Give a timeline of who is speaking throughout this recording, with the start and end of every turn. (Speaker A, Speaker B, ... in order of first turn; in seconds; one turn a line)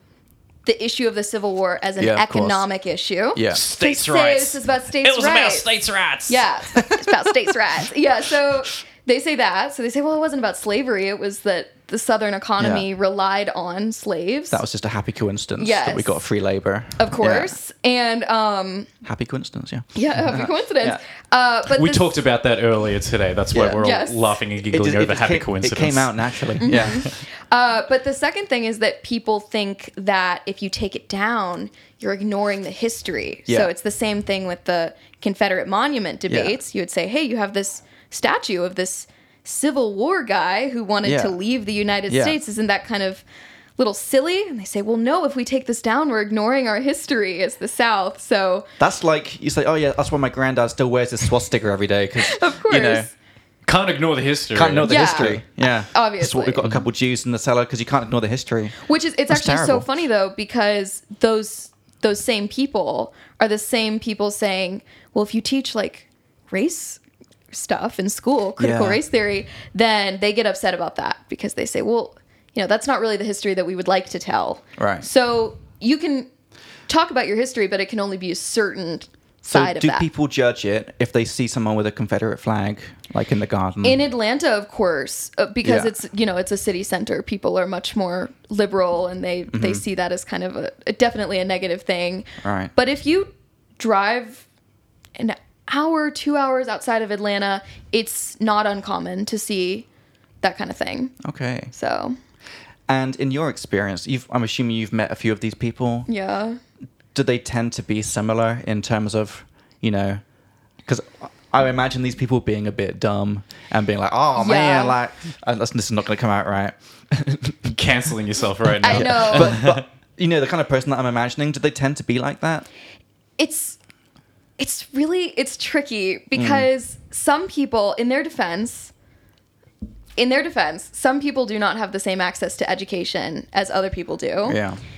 Speaker A: 0.7-5.7
Speaker B: 2.0-2.6
Speaker B: 3.4-3.6
Speaker C: 3.5-6.5
Speaker A: 6.3-14.6
Speaker B: 6.8-7.2
Speaker B: 12.6-12.9
Speaker B: 14.5-17.6
Speaker A: 15.6-16.2
Speaker A: 17.0-18.9
Speaker B: 19.0-21.0
Speaker A: 19.9-22.1
Speaker C: 21.7-27.1
Speaker B: 23.5-23.8
Speaker A: 23.8-24.3
Speaker B: 24.6-27.1
Speaker A: 26.6-43.2
Speaker B: 36.3-36.6
Speaker B: 41.0-41.4
Speaker B: 42.1-42.4
Speaker A: 43.8-48.7
Speaker B: 48.8-53.1
Speaker A: 52.2-53.1
Speaker C: 53.7-55.4
Speaker B: 54.5-58.8
Speaker A: 54.9-56.7
Speaker A: 58.9-76.3
Speaker B: 59.3-59.9
Speaker B: 68.6-69.0
Speaker B: 74.8-75.1
Speaker A: 76.9-80.1
Speaker B: 79.5-84.0
Speaker A: 83.8-94.5
Speaker B: 85.6-85.9
Speaker B: 89.5-89.8
Speaker B: 92.4-92.7
Speaker A: 95.2-99.9
Speaker A: 100.4-101.1
Speaker B: 101.2-101.7
Speaker A: 101.7-102.2
Speaker B: 102.9-106.1
Speaker A: 106.1-106.6
Speaker B: 107.1-110.2
Speaker B: 110.9-117.8
Speaker A: 114.3-115.0
Speaker C: 117.7-119.8
Speaker A: 118.8-119.7
Speaker B: 118.8-122.7
Speaker A: 123.4-123.8
Speaker A: 124.6-128.9
Speaker B: 126.3-126.7
Speaker A: 130.2-134.6
Speaker B: 134.4-134.8